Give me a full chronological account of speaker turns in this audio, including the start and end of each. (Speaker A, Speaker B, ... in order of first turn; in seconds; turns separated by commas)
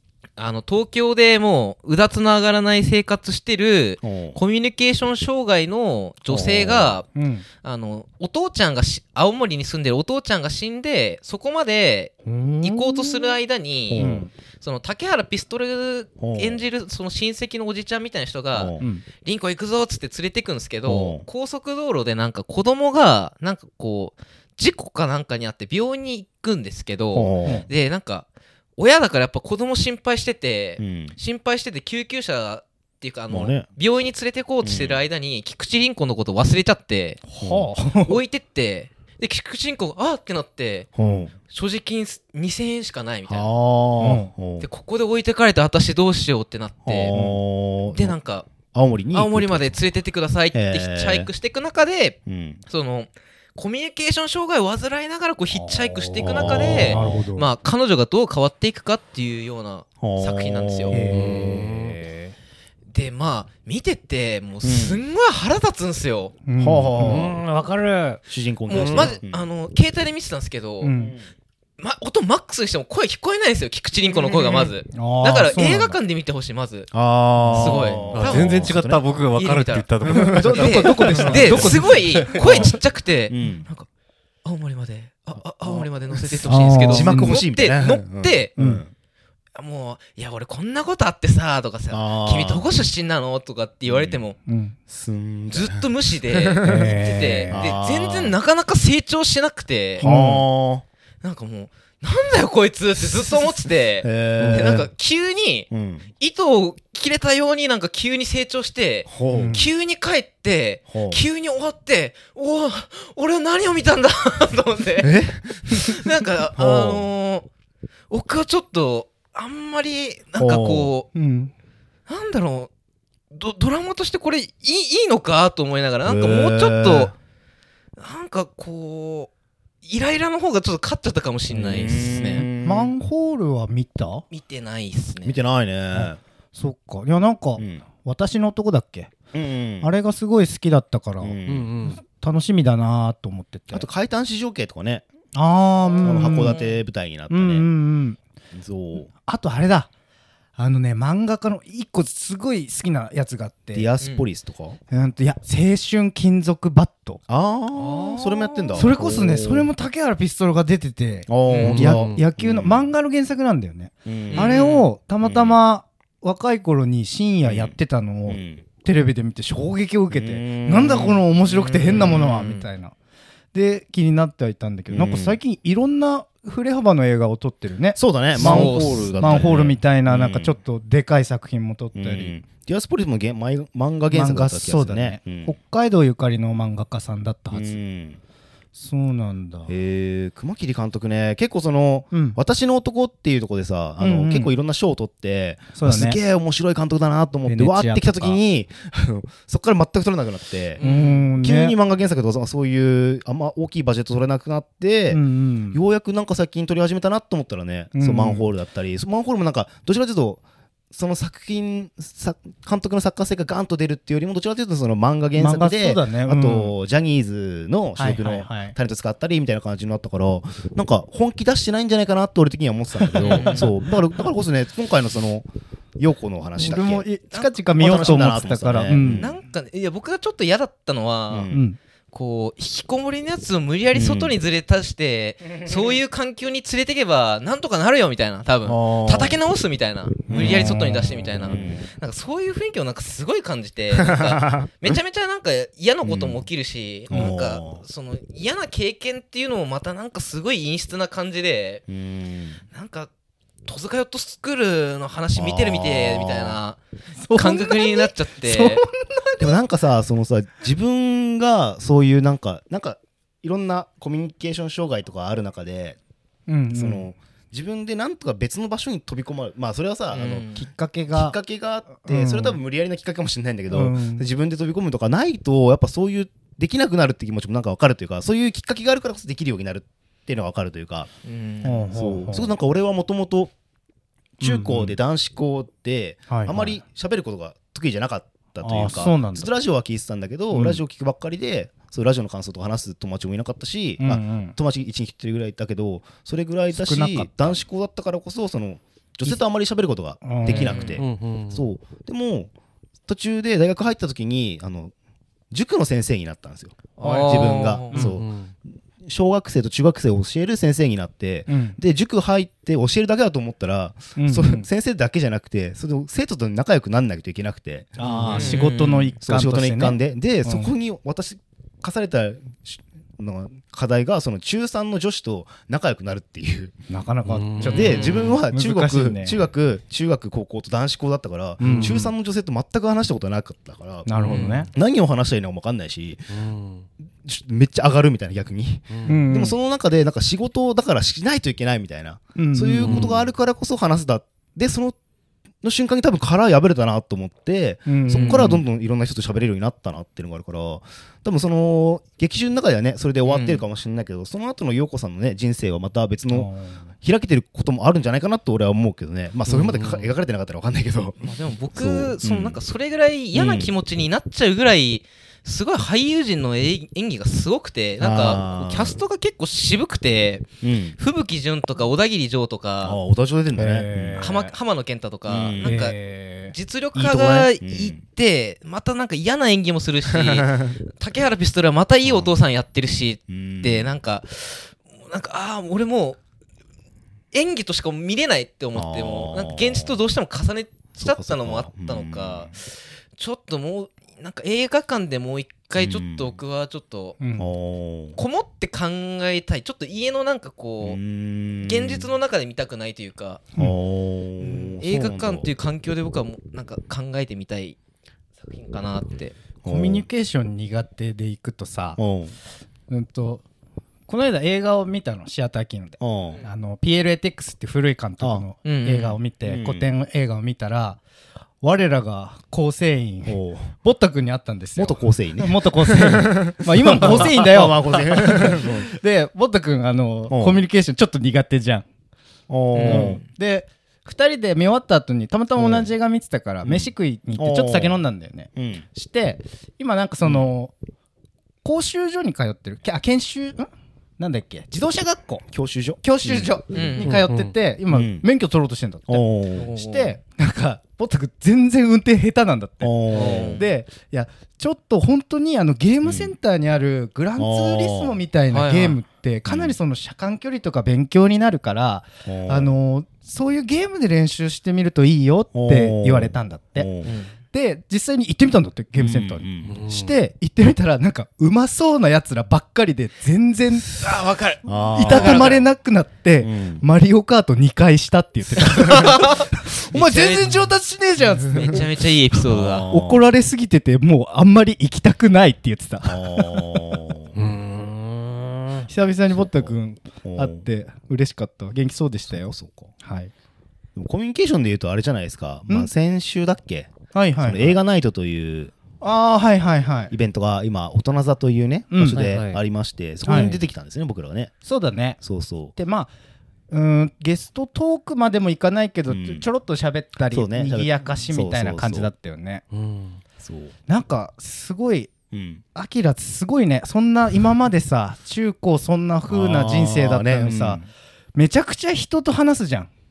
Speaker A: 0.4-7.1, Speaker B: 4.0-4.4, Speaker B: 6.3-7.0, Speaker C: 7.1-7.5, Speaker A: 7.6-37.2, Speaker C: 12.2-13.4, Speaker B: 13.9-14.3, Speaker C: 13.9-14.3, Speaker B: 16.2-16.6, Speaker B: 18.5-18.8, Speaker B: 20.9-21.2, Speaker B: 27.1-27.6, Speaker B: 30.8-31.1, Speaker B: 33.3-33.7, Speaker B: 34.6-35.0, Speaker C: 37.3-38.2, Speaker B: 37.4-37.7, Speaker A: 38.0-43.5, Speaker B: 41.0-41.3, Speaker B: 43.3-44.6, Speaker C: 44.0-44.3, Speaker A: 44.6-47.1, Speaker B: 46.9-48.1, Speaker C: 47.1-47.4, Speaker A: 47.9-48.5, Speaker B: 48.7-49.8, Speaker A: 49.1-61.0, Speaker B: 50.5-51.3, Speaker B: 52.2-52.6, Speaker C: 55.5-57.5, Speaker B: 56.2-57.2, Speaker B: 60.0-61.7, Speaker C: 60.9-62.3, Speaker D: 61.1-62.0, Speaker A: 62.9-66.3, Speaker B: 64.6-65.0, Speaker C: 66.5-67.3, Speaker B: 66.6-67.4, Speaker D: 67.0-69.1, Speaker B: 68.3-69.5, Speaker A: 68.7-70.9, Speaker C: 70.8-71.2, Speaker B: 70.9-71.2, Speaker A: 71.8-76.9, Speaker B: 74.1-74.7, Speaker C: 74.9-76.0, Speaker B: 76.9-79.0, Speaker C: 77.4-78.1, Speaker A: 77.5-78.8, Speaker D: 78.1-80.8, Speaker A: 79.3-83.9, Speaker B: 80.0-82.8, Speaker C: 80.3-81.9, Speaker B: 83.3-83.7, Speaker A: 84.4-88.5, Speaker B: 85.4-88.9, Speaker C: 86.5-87.4, Speaker C: 88.6-88.8, Speaker A: 89.5-94.4, Speaker B: 91.9-92.7, Speaker B: 93.9-94.2, Speaker C: 94.5-94.8, Speaker B: 94.9-97.0, Speaker A: 95.5-100.0, Speaker C: 96.6-97.7, Speaker B: 97.5-98.4, Speaker C: 100.0-100.5, Speaker B: 100.0-100.8, Speaker A: 101.2-117.5, Speaker B: 104.0-104.9, Speaker B: 105.7-106.0, Speaker B: 109.1-109.6, Speaker C: 109.3-109.7, Speaker B: 110.9-111.2, Speaker B: 115.0-116.0, Speaker B: 116.5-117.1, Speaker A: 118.1-121.1, Speaker B: 120.4-120.9, Speaker C: 121.1-121.5, Speaker A: 122.1-122.7, Speaker A: 123.3-127.1, Speaker B: 126.0-127.1, Speaker A: 128.0-129.3, Speaker A: 129.8-132.5, Speaker B: 131.5-132.9, Speaker C: 132.4-134.2, Speaker A: 134.3-135.4, Speaker B: 135.2-136.2, Speaker C: 135.9-139.1, Speaker B: 137.6-137.8, Speaker B: 139.3-139.9, Speaker C: 139.8-141.4, Speaker B: 141.2-141.7, Speaker D: 141.4-142.0, Speaker C: 142.0-143.9, Speaker B: 143.7-145.0, Speaker C: 145.3-146.6, Speaker B: 146.0-147.7, Speaker A: 146.3-146.7, Speaker C: 147.3-148.2, Speaker B: 148.5-149.1, Speaker C: 149.1-149.9, Speaker C: 150.6-153.9, Speaker B: 153.7-154.8, Speaker C: 154.9-157.2, Speaker B: 157.3-159.7, Speaker A: 157.7-158.9, Speaker C: 158.7-172.9, Speaker B: 161.3-162.9, Speaker A: 161.5-161.8, Speaker D: 161.6-162.2, Speaker B: 164.0-164.5, Speaker A: 164.3-164.9, Speaker B: 165.2-165.6, Speaker B: 167.4-167.7, Speaker B: 168.3-168.6, Speaker B: 170.1-171.2, Speaker A: 171.4-172.7, Speaker C: 173.5-182.3, Speaker B: 174.9-175.4, Speaker B: 177.9-180.6, Speaker A: 178.3-179.5, Speaker B: 181.9-185.6, Speaker C: 184.1-187.8, Speaker B: 187.5-188.2, Speaker C: 188.7-189.7, Speaker B: 189.7-200.8, Speaker C: 192.1-192.4, Speaker C: 194.0-194.5, Speaker C: 195.7-196.2, Speaker C: 197.4-198.4, Speaker A: 200.8-201.3, Speaker C: 200.8-201.7, Speaker B: 201.4-225.5, Speaker C: 205.1-205.8, Speaker C: 207.9-208.5, Speaker C: 215.4-216.7, Speaker C: 218.0-218.8, Speaker C: 223.2-223.6, Speaker A: 223.2-223.7, Speaker B: 226.0-227.1, Speaker C: 226.6-229.2, Speaker B: 227.8-229.4, Speaker A: 228.9-231.5, Speaker B: 231.3-231.6, Speaker C: 231.5-231.8, Speaker A: 232.1-251.8, Speaker B: 233.9-234.3, Speaker B: 238.6-239.4, Speaker B: 240.3-241.9, Speaker B: 243.9-244.7, Speaker B: 246.0-246.4, Speaker B: 247.1-247.8, Speaker B: 251.9-252.6, Speaker A: 252.7-253.1, Speaker A: 253.7-256.8, Speaker B: 255.3-256.6, Speaker C: 257.2-259.5, Speaker A: 257.3-258.8, Speaker B: 259.4-266.0, Speaker C: 266.5-267.0, Speaker B: 266.7-270.5, Speaker A: 270.1-270.6, Speaker C: 270.5-271.4, Speaker B: 271.1-281.1, Speaker C: 272.0-272.6, Speaker C: 273.7-274.2, Speaker A: 281.2-281.8, Speaker C: 281.6-282.5, Speaker B: 281.9-283.5, Speaker B: 284.4-302.5, Speaker C: 284.4-284.9, Speaker C: 286.3-286.8, Speaker C: 288.6-289.5, Speaker C: 290.5-290.8, Speaker C: 294.0-294.6, Speaker C: 296.7-297.6, Speaker C: 300.2-300.8, Speaker A: 300.4-301.0, Speaker D: 300.9-301.6, Speaker B: 303.1-304.9, Speaker B: 305.5-308.3, Speaker A: 307.0-308.0, Speaker C: 307.0-308.1, Speaker D: 308.0-308.5, Speaker B: 309.0-318.6, Speaker C: 311.5-311.8, Speaker C: 314.1-314.6, Speaker C: 318.0-320.7, Speaker A: 318.3-319.1, Speaker B: 319.2-326.7, Speaker C: 326.9-329.4, Speaker D: 327.3-327.9, Speaker A: 327.6-328.4, Speaker B: 327.6-336.3, Speaker C: 331.6-332.1, Speaker D: 331.6-332.0, Speaker C: 334.1-334.7, Speaker A: 334.2-334.6, Speaker D: 334.2-334.7, Speaker D: 336.3-336.9, Speaker B: 337.2-344.9, Speaker C: 339.1-339.6, Speaker C: 342.4-343.1, Speaker D: 342.8-343.1, Speaker B: 345.6-356.5, Speaker C: 347.9-348.6, Speaker A: 348.1-348.5, Speaker A: 353.2-353.6, Speaker C: 356.3-356.8, Speaker B: 357.0-362.6, Speaker D: 359.5-360.1, Speaker A: 361.2-370.5, Speaker B: 363.3-363.7, Speaker B: 368.0-369.0, Speaker B: 370.6-371.0, Speaker A: 371.0-373.0, Speaker B: 372.8-374.2, Speaker C: 373.5-374.6, Speaker A: 374.2-376.0, Speaker B: 375.3-375.8, Speaker C: 375.6-376.5, Speaker A: 376.5-386.2, Speaker B: 376.9-378.0, Speaker B: 380.1-380.8, Speaker B: 382.0-382.3, Speaker B: 383.3-383.9, Speaker A: 387.3-397.2, Speaker B: 388.7-390.0, Speaker B: 390.9-392.5, Speaker B: 395.8-396.3, Speaker C: 397.2-397.5, Speaker B: 397.4-398.2, Speaker A: 398.2-401.0, Speaker B: 400.8-402.1, Speaker A: 401.6-403.4, Speaker B: 403.6-405.5, Speaker A: 404.4-407.8, Speaker A: 408.4-409.4, Speaker B: 409.6-410.0, Speaker C: 409.6-412.0, Speaker B: 412.0-412.3, Speaker C: 412.9-413.4, Speaker C: 414.1-421.0, Speaker B: 416.0-416.4, Speaker A: 418.6-419.2, Speaker B: 419.4-419.8, Speaker C: 421.6-431.9, Speaker B: 423.2-423.8, Speaker B: 424.8-428.9, Speaker B: 430.3-430.6, Speaker B: 432.5-433.2, Speaker A: 432.7-433.2, Speaker C: 432.8-440.7, Speaker B: 435.6-435.9, Speaker B: 436.6-438.0, Speaker B: 438.6-438.9, Speaker C: 441.6-445.4, Speaker B: 445.5-447.0, Speaker C: 446.0-466.9, Speaker A: 446.7-447.1, Speaker D: 447.0-447.5, Speaker B: 447.9-448.2, Speaker B: 449.1-449.7, Speaker A: 449.6-450.1, Speaker B: 452.8-453.6, Speaker A: 453.1-453.6, Speaker B: 456.0-456.3, Speaker B: 457.4-458.2, Speaker A: 458.5-459.0, Speaker B: 459.5-459.8, Speaker B: 462.2-462.7, Speaker B: 465.5-467.1, Speaker A: 467.1-467.3, Speaker C: 467.5-474.2, Speaker B: 469.0-469.8, Speaker D: 469.6-470.1, Speaker A: 473.9-475.6, Speaker B: 474.6-475.6, Speaker C: 474.9-481.9, Speaker B: 476.4-476.8, Speaker A: 478.7-480.7, Speaker A: 481.5-482.9, Speaker B: 482.4-483.2, Speaker C: 482.9-486.6, Speaker B: 486.0-487.4, Speaker D: 487.3-488.9, Speaker C: 488.9-493.3, Speaker B: 489.3-489.7, Speaker B: 490.2-490.6, Speaker B: 492.3-492.9, Speaker B: 493.9-498.7, Speaker C: 497.1-497.8, Speaker C: 499.0-500.1, Speaker B: 500.1-504.5, Speaker C: 501.9-502.2, Speaker D: 502.1-502.6, Speaker C: 503.2-503.6, Speaker D: 503.3-503.6, Speaker C: 504.6-505.2, Speaker B: 505.2-505.7, Speaker C: 505.7-506.1, Speaker C: 506.7-512.6, Speaker B: 509.1-509.4, Speaker B: 510.3-512.1, Speaker D: 512.7-513.2, Speaker B: 513.4-513.7, Speaker C: 513.9-515.1, Speaker B: 515.3-515.6, Speaker C: 515.7-520.8, Speaker B: 519.3-520.9, Speaker C: 521.3-522.9